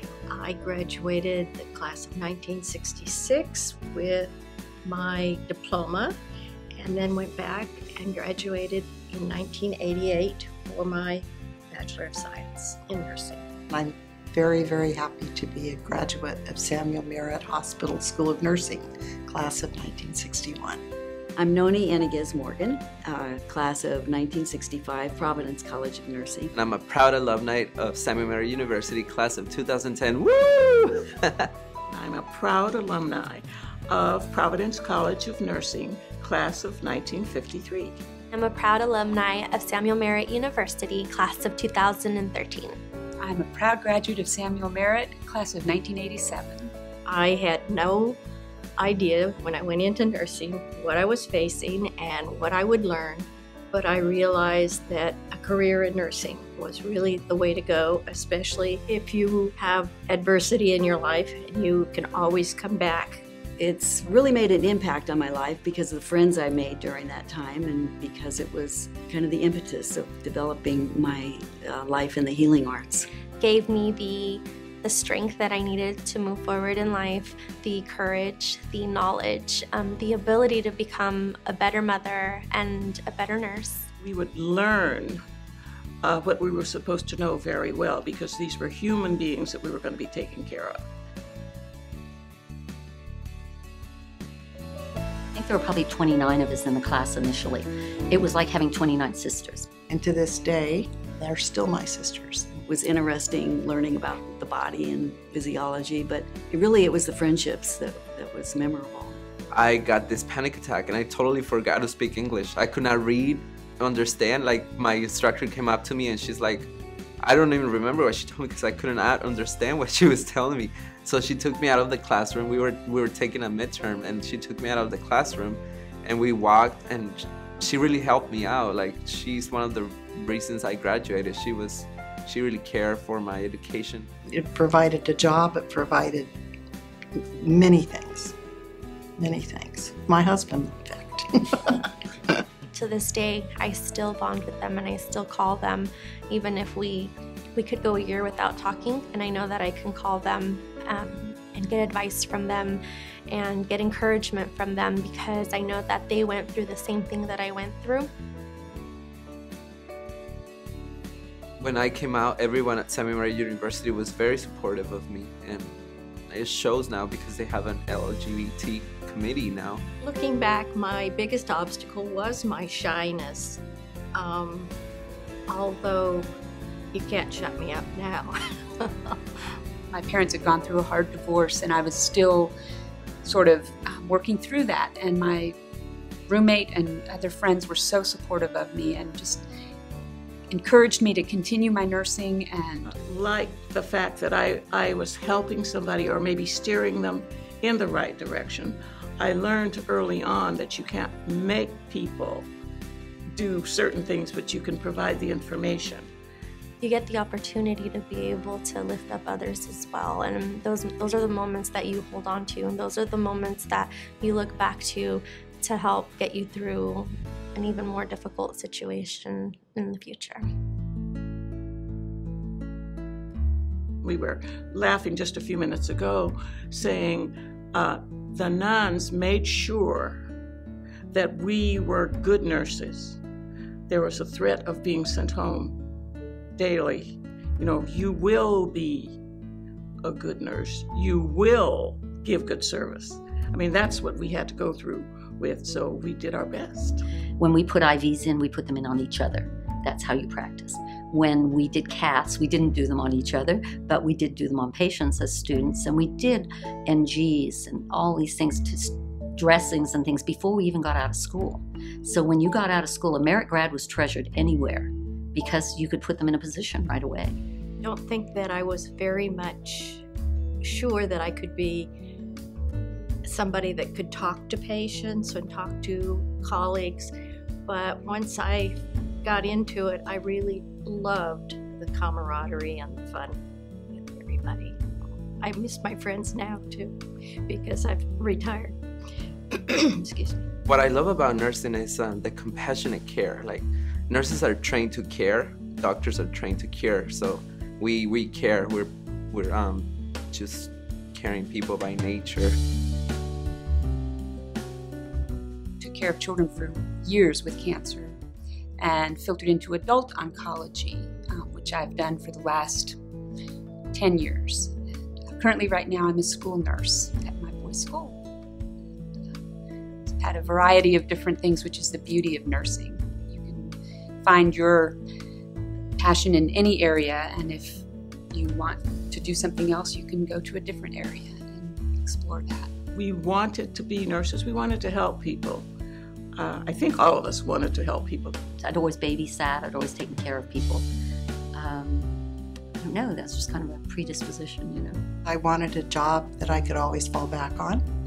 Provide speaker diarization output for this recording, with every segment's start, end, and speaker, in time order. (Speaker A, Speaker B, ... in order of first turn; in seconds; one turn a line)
Speaker A: 0.3-6.2
Speaker A: 6.8-13.5
Speaker B: 13.7-20.8
Speaker C: 21.4-26.5
Speaker D: 26.5-31.5
Speaker E: 31.9-38.0
Speaker F: 38.3-42.8
Speaker G: 43.2-46.7
Speaker A: 47.1-48.2
Speaker A: 48.8-63.2
Speaker C: 63.6-73.1
Speaker F: 73.4-83.9
Speaker E: 84.0-85.2
Speaker E: 86.0-90.8
Speaker H: 95.3-99.7
Speaker B: 99.9-102.5
Speaker C: 102.7-109.2
Speaker D: 109.5-116.7
Speaker D: 117.2-134.1
Speaker B: 134.3-136.3
Speaker B: 137.4-138.3
Speaker B: 139.2-142.3
Speaker F: 142.7-158.1
Speaker D: 161.6-165.7
Speaker D: 166.3-169.8
Speaker A: 170.0-173.6
Speaker A: 174.1-174.7
Speaker A: 175.5-176.3
Speaker A: 176.9-179.2
Speaker G: 179.9-182.5
Speaker G: 183.2-185.6
Speaker G: 186.3-189.5
Speaker G: 190.5-192.9
Speaker E: 192.8-202.5
Speaker E: 203.3-206.1
Speaker F: 206.8-220.4
Speaker E: 224.0-230.2
Speaker E: 231.1-233.2
Speaker E: 233.9-235.8
Speaker E: 236.6-239.2
Speaker E: 240.0-247.1
Speaker H: 247.4-267.4
Speaker A: 267.8-270.1
Speaker A: 270.6-271.9
Speaker A: 273.2-277.1
Speaker A: 277.7-283.4
Speaker A: 283.9-284.8
Speaker A: 285.4-287.0
Speaker A: 287.5-288.8
Speaker A: 289.5-290.4
Speaker D: 290.6-302.6
Speaker G: 305.8-308.2
Speaker G: 308.8-313.0
Speaker G: 313.9-314.7
Speaker G: 315.3-318.2
Speaker G: 320.1-325.0
Speaker G: 326.0-332.7
Speaker E: 332.9-335.7
Speaker E: 336.4-338.4
Speaker H: 338.6-340.9
Speaker H: 341.5-342.1
Speaker H: 342.8-345.0
Speaker B: 345.2-347.8